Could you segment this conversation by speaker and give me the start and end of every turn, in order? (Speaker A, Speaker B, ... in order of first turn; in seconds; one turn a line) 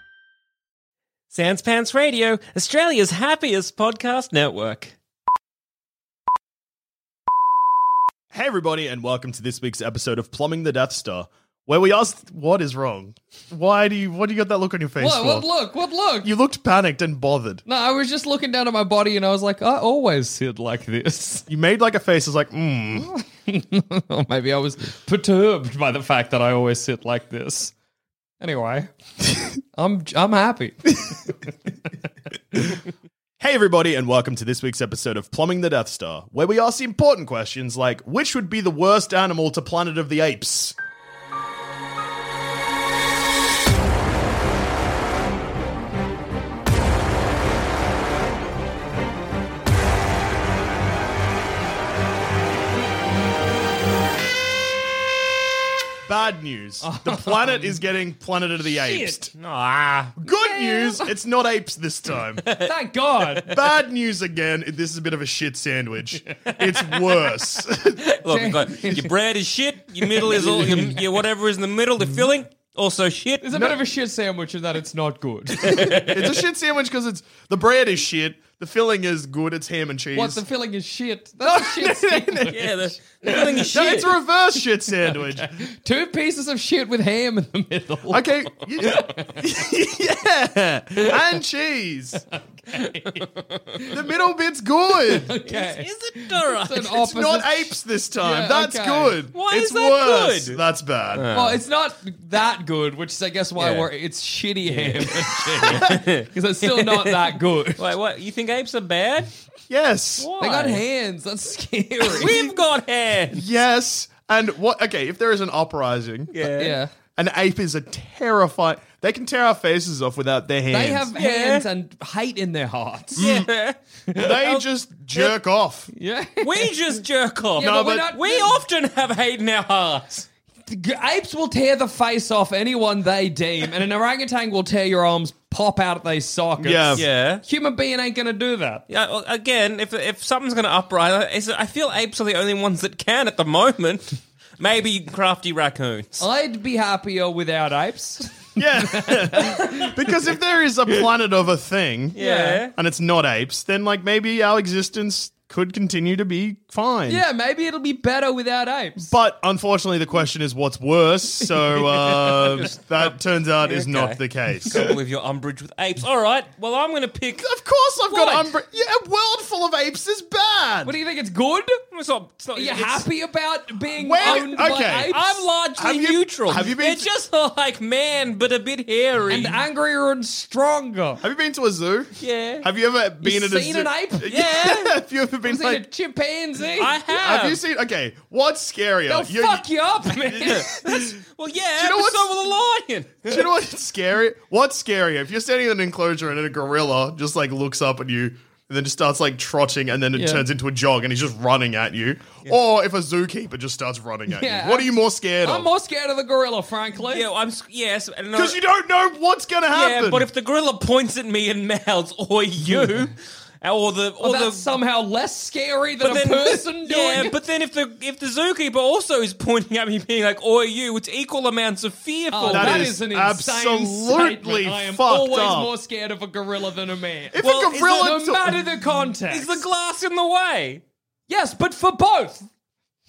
Speaker A: 1.3-4.9
Speaker B: 8.3-15.5
Speaker C: 15.0-16.3
Speaker B: 16.2-17.6
Speaker C: 17.6-21.4
Speaker B: 21.5-23.1
Speaker C: 23.1-27.7
Speaker C: 28.4-28.9
Speaker C: 29.7-31.3
Speaker B: 33.4-40.7
Speaker B: 56.0-59.3
Speaker C: 56.8-57.8
Speaker C: 58.6-59.2
Speaker A: 59.3-60.2
Speaker B: 60.2-62.4
Speaker C: 60.4-61.1
Speaker A: 62.4-62.7
Speaker C: 62.6-63.5
Speaker B: 63.5-68.0
Speaker A: 66.6-67.3
Speaker A: 68.0-73.6
Speaker C: 68.2-69.1
Speaker C: 70.1-71.0
Speaker C: 73.4-76.1
Speaker A: 75.6-76.4
Speaker B: 76.1-80.4
Speaker C: 80.1-83.7
Speaker B: 81.6-82.5
Speaker A: 82.5-84.2
Speaker B: 83.7-85.5
Speaker C: 84.9-88.2
Speaker B: 88.1-92.2
Speaker C: 88.8-89.4
Speaker C: 92.3-94.0
Speaker B: 93.9-95.3
Speaker C: 95.1-99.2
Speaker A: 95.5-97.0
Speaker B: 97.0-101.3
Speaker A: 99.3-100.6
Speaker A: 101.1-101.6
Speaker C: 101.3-107.8
Speaker A: 103.6-103.9
Speaker A: 104.6-109.3
Speaker B: 109.7-110.3
Speaker A: 110.2-110.8
Speaker C: 110.4-112.3
Speaker A: 112.1-113.4
Speaker B: 113.3-116.3
Speaker A: 116.3-116.8
Speaker C: 116.5-116.9
Speaker B: 117.1-121.1
Speaker C: 120.7-123.2
Speaker A: 121.1-121.7
Speaker A: 123.2-125.4
Speaker B: 123.2-123.5
Speaker B: 124.1-125.9
Speaker C: 125.9-126.7
Speaker A: 126.4-130.2
Speaker C: 127.6-128.6
Speaker B: 127.6-128.1
Speaker C: 130.7-138.8
Speaker B: 136.6-137.0
Speaker A: 136.9-137.4
Speaker A: 138.9-146.2
Speaker C: 146.2-149.9
Speaker B: 148.6-152.2
Speaker A: 152.2-152.7
Speaker C: 152.2-152.7
Speaker B: 152.7-157.2
Speaker C: 157.1-159.1
Speaker B: 159.0-164.9
Speaker A: 162.4-167.5
Speaker B: 167.3-170.9
Speaker C: 168.1-168.4
Speaker C: 170.8-171.8
Speaker A: 171.9-173.1
Speaker C: 172.5-175.4
Speaker B: 173.9-175.1
Speaker A: 174.2-179.6
Speaker B: 175.8-177.0
Speaker C: 179.3-181.2
Speaker B: 181.2-185.8
Speaker A: 182.2-182.6
Speaker C: 183.2-184.4
Speaker A: 184.3-185.0
Speaker C: 185.4-186.9
Speaker A: 186.8-187.6
Speaker B: 187.0-190.9
Speaker C: 189.1-191.1
Speaker A: 190.4-193.5
Speaker B: 191.8-192.3
Speaker B: 193.2-205.7
Speaker C: 200.1-200.4
Speaker C: 204.3-204.9
Speaker C: 205.4-207.2
Speaker A: 207.0-208.6
Speaker B: 208.3-210.3
Speaker A: 209.7-214.7
Speaker C: 214.2-217.3
Speaker A: 216.0-222.9
Speaker C: 222.3-229.7
Speaker B: 222.5-225.7
Speaker B: 227.3-228.6
Speaker A: 227.4-228.3
Speaker A: 229.3-230.8
Speaker C: 231.3-232.4